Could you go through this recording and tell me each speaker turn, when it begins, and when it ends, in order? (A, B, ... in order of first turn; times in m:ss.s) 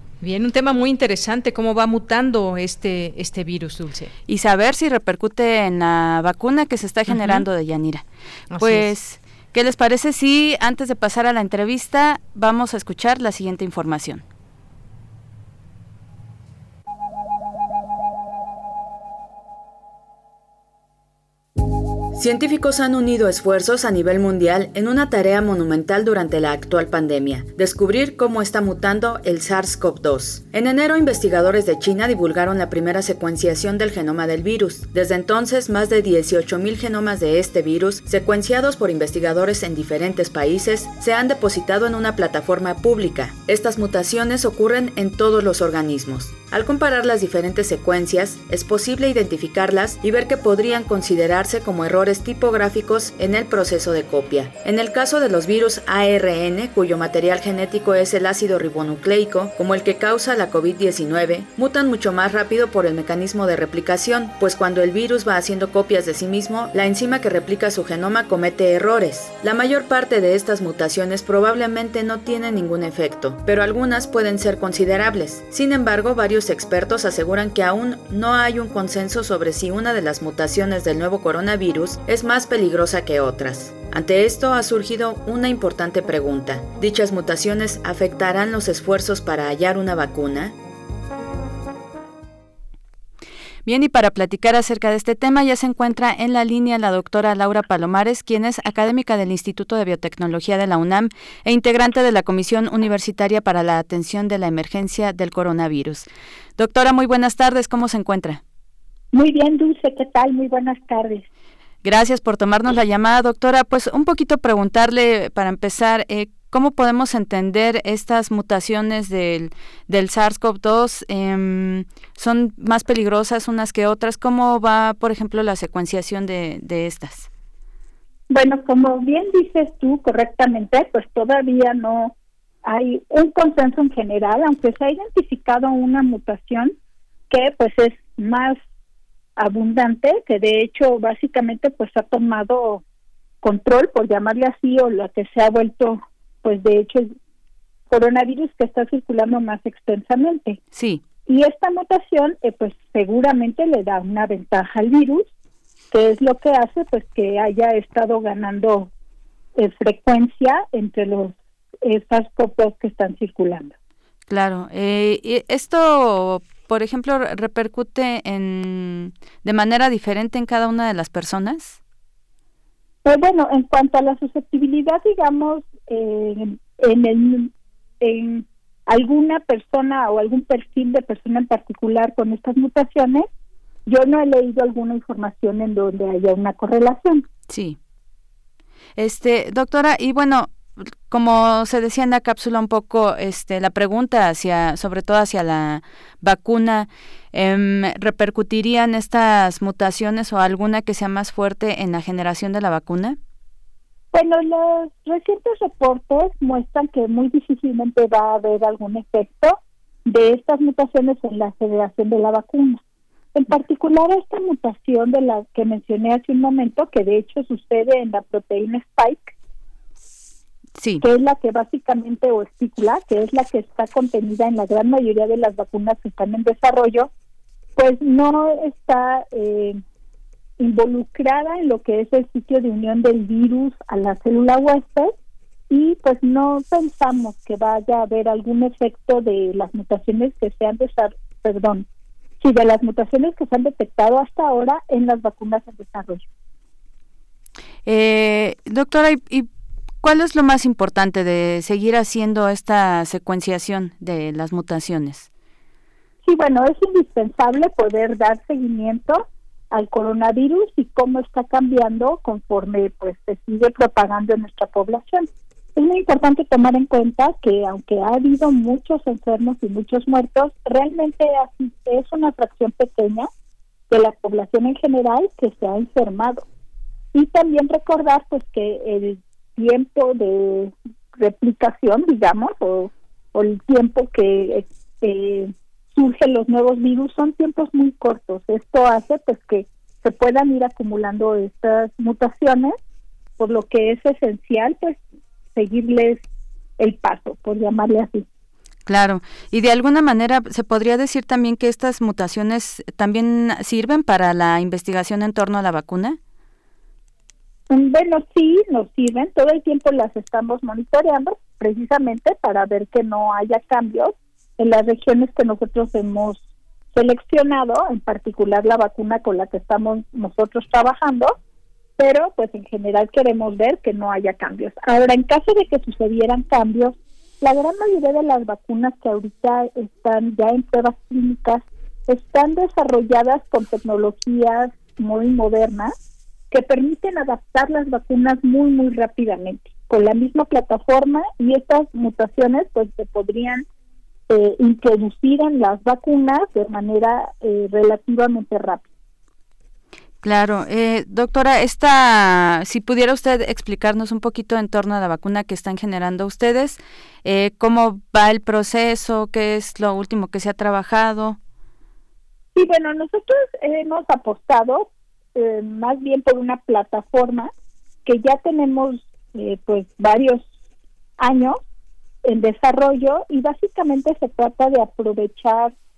0:00.2-0:04.1 A
0:04.3-0:14.2 B
0:07.1-0:07.4 A
0:08.5-0:08.9 A
0:22.1-1:30.6 C
1:33.7-1:48.4 B
1:49.1-1:51.2 D
1:51.8-2:07.3 B
2:08.3-2:16.8 D
2:17.3-2:18.6 D
2:19.4-2:22.8 D
2:23.4-2:27.2 D
2:27.9-2:30.6 D
2:30.7-2:31.0 B
2:31.3-2:35.3 D
2:35.9-2:38.9 D
2:39.6-2:43.7 D
2:44.3-2:51.8 B
2:53.0-3:03.3 D
3:03.9-3:07.3 D
3:07.5-3:07.8 B
3:09.0-3:23.2 B
3:24.1-3:32.8 D
3:33.3-3:39.3 D
3:40.8-3:41.0 B
3:41.0-3:47.1 D
3:47.8-3:49.8 D
3:50.6-3:55.1 D
3:55.7-4:01.9 D
4:02.4-4:06.3 D
4:07.8-4:09.5 B
4:10.0-4:15.3 B
4:16.2-4:33.3 D
4:33.9-4:36.4 D
4:37.1-4:52.8 D
4:53.4-4:55.0 D
4:55.6-4:56.2 D
4:56.8-4:58.3 D
4:58.9-5:06.2 B
5:07.7-5:16.4 D
5:16.9-5:21.4 D
5:22.0-5:35.9 D
5:36.5-5:43.6 D
5:44.3-5:48.8 D
5:50.2-6:01.4 B
6:02.6-6:07.5 D
6:08.0-6:10.5 D
6:11.2-6:11.6 D
6:12.2-6:15.7 D